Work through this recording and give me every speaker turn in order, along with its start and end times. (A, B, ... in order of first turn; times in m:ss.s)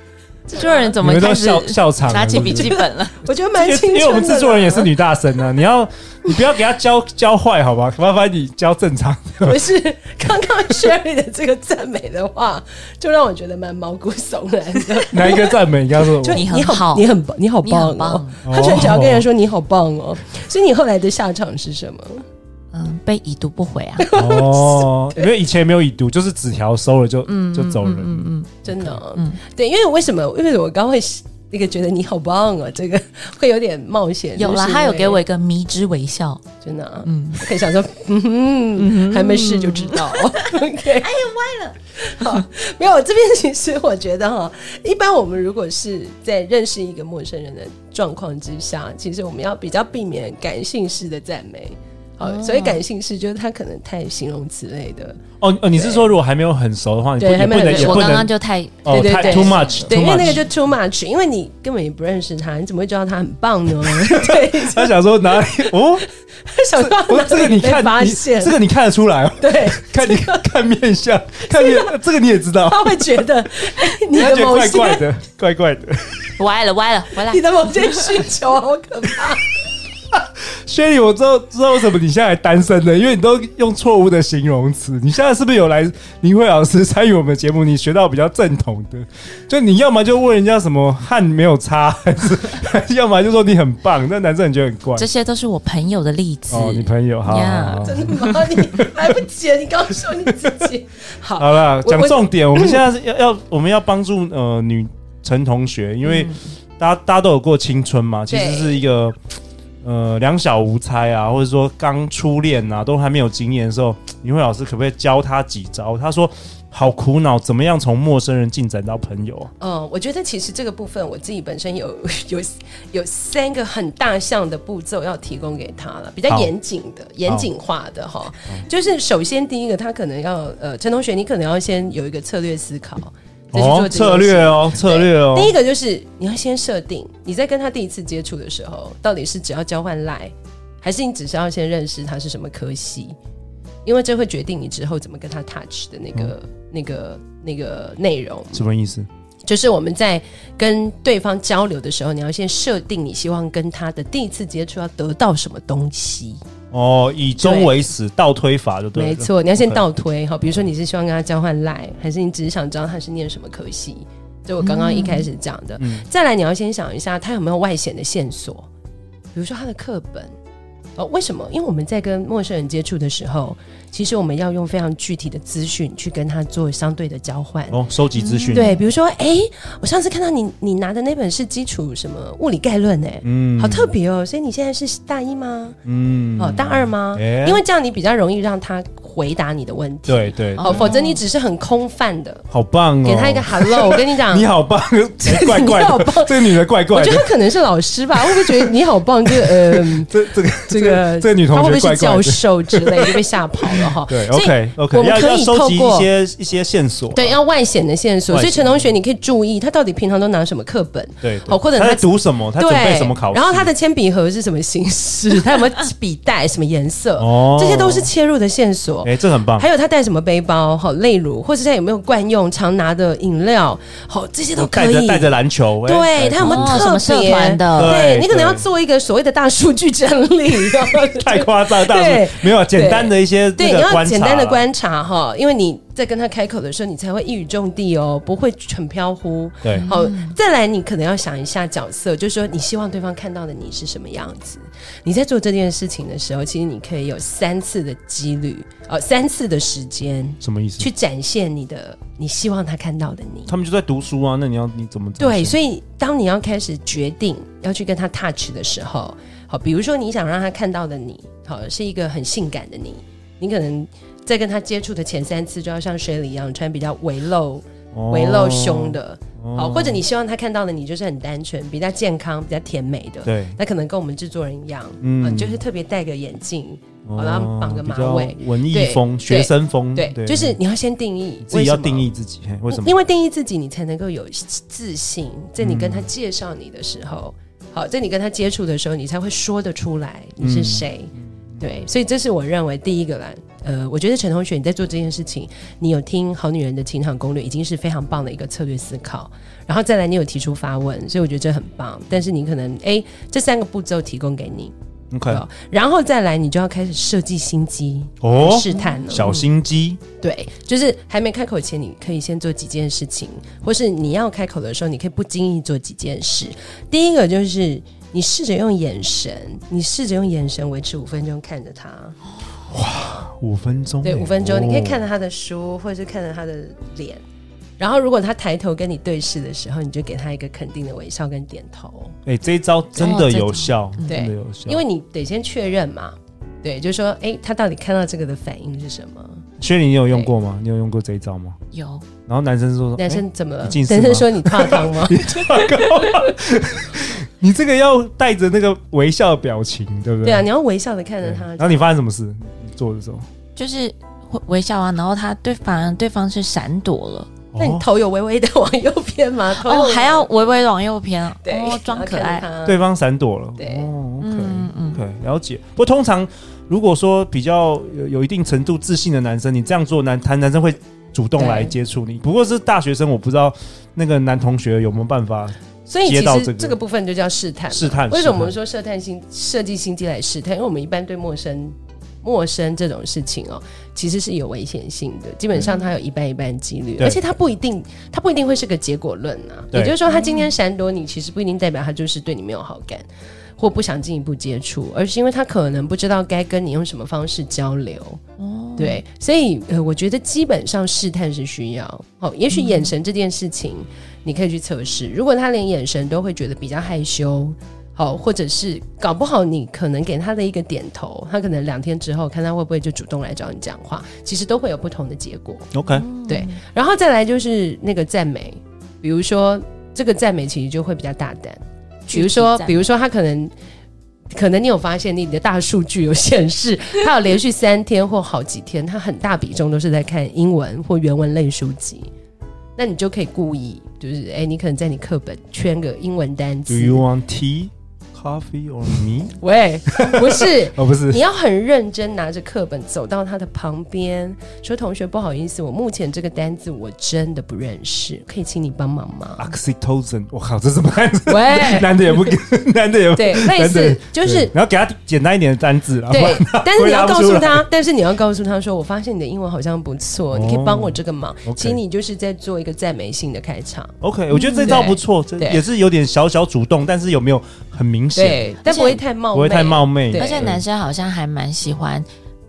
0:00.5-0:00.9 A
0:00.5-0:03.2 B
0:01.0-0:02.7 C
0:02.3-0:04.9 A
0:03.6-0:09.6 C
0:09.4-0:22.2 A
0:15.1-0:16.4 C
0:16.3-0:17.1 B
0:17.6-0:18.4 B
0:18.4-0:19.2 C
0:22.7-0:24.1 B
0:24.0-0:25.3 A
0:24.1-0:28.2 C
0:27.3-0:29.4 B
0:28.6-0:35.2 A
0:34.4-0:36.4 B
0:36.6-0:41.2 A
0:37.0-0:37.5 B
0:38.8-0:42.4 B
0:42.0-0:55.2 A
0:52.2-0:52.8 B
0:55.4-0:58.3 C
0:55.7-0:56.1 A
0:57.2-0:58.3 A
0:57.6-1:00.4 B
0:58.8-1:00.4 C
0:58.9-1:05.7 A
1:03.9-1:06.1 C
1:06.4-1:08.5 A
1:06.8-1:13.2 C
1:09.4-1:10.4 A
1:11.5-1:12.0 A
1:12.6-1:15.0 A
1:14.1-1:16.3 C
1:16.4-1:18.1 B
1:17.2-1:19.4 A
1:20.1-1:35.1 C
1:35.0-1:38.4 B
1:36.5-1:38.9 C
1:37.8-1:42.8 A
1:41.4-1:49.2 C
1:46.0-1:46.4 B
1:48.3-1:48.8 A
1:49.8-1:59.5 C
1:59.6-2:23.2 A
2:06.3-2:06.5 C
2:13.5-2:15.5 C
2:23.8-2:28.6 A
2:28.5-2:29.1 C
2:29.4-2:36.4 A
2:36.7-2:39.8 C
2:37.4-2:37.7 A
2:38.9-2:48.7 A
2:44.6-2:45.3 B
2:45.8-2:46.0 C
2:49.3-2:50.3 A
2:51.0-2:57.8 A
2:57.7-2:58.7 C
2:58.1-2:58.8 B
2:58.5-3:05.8 A
3:03.2-3:03.9 C
3:05.8-3:07.6 C
3:06.4-3:12.4 A
3:10.1-3:10.9 C
3:10.6-3:11.2 B
3:12.5-3:17.3 C
3:13.0-3:14.5 A
3:15.2-3:26.1 A
3:18.2-3:18.7 C
3:19.4-3:23.1 C
3:23.7-3:27.4 C
3:27.1-4:13.5 A
3:28.3-3:28.8 C
3:31.2-3:33.7 C
3:37.2-3:38.1 C
3:39.0-3:39.6 C
3:44.6-3:46.9 C
3:46.4-3:48.0 B
3:47.8-3:48.6 C
3:51.1-3:54.6 C
3:59.6-3:59.9 C
3:59.7-4:00.4 B
4:10.4-4:10.9 C
4:13.5-4:15.5 C
4:15.2-4:42.1 A
4:27.9-4:30.0 C
4:33.2-4:33.6 C
4:35.0-4:35.6 C
4:37.0-4:40.6 C
4:41.4-4:43.0 C
4:42.7-5:04.7 A
4:45.6-4:46.1 C
4:50.4-4:51.6 C
5:05.1-5:05.4 C
5:05.3-5:09.5 A
5:08.2-5:10.0 C
5:08.7-5:09.0 B
5:10.2-5:22.1 A
5:22.7-5:25.0 C
5:24.0-5:27.2 A
5:27.8-5:32.2 A
5:32.2-5:34.8 C
5:33.0-5:34.2 B
5:34.0-5:39.4 A
5:39.6-5:41.6 C
5:41.7-5:42.0 B
5:42.3-5:50.4 C
5:43.0-5:46.1 A
5:50.2-5:51.9 A
5:51.2-5:53.2 C
5:53.6-5:57.3 B
5:57.5-5:57.8 C
5:57.6-6:00.3 A
5:59.5-6:02.5 B
6:01.4-6:02.8 A
6:02.6-6:16.8 C
6:03.6-6:03.9 A
6:04.2-6:05.0 B
6:11.4-6:11.7 A
6:15.9-6:38.2 A
6:17.7-6:18.5 C
6:30.1-6:30.5 B
6:38.4-6:39.0 B
6:38.8-6:55.7 A
6:42.5-6:42.9 B
6:55.7-6:56.0 C
6:55.8-6:56.6 B
6:56.3-7:03.5 A
7:02.1-7:02.9 B
7:04.3-7:12.1 A
7:12.8-7:17.0 A
7:16.7-7:21.2 C
7:19.4-7:29.5 A
7:29.4-7:37.6 C
7:31.3-7:32.4 A
7:33.1-7:34.5 A
7:36.1-7:43.9 A
7:40.3-7:41.8 C
7:44.0-7:48.5 C
7:44.3-7:44.8 B
7:44.6-7:45.6 A
7:48.1-7:50.5 A
7:48.6-7:49.0 B
7:49.3-7:50.6 C
7:50.1-7:52.0 B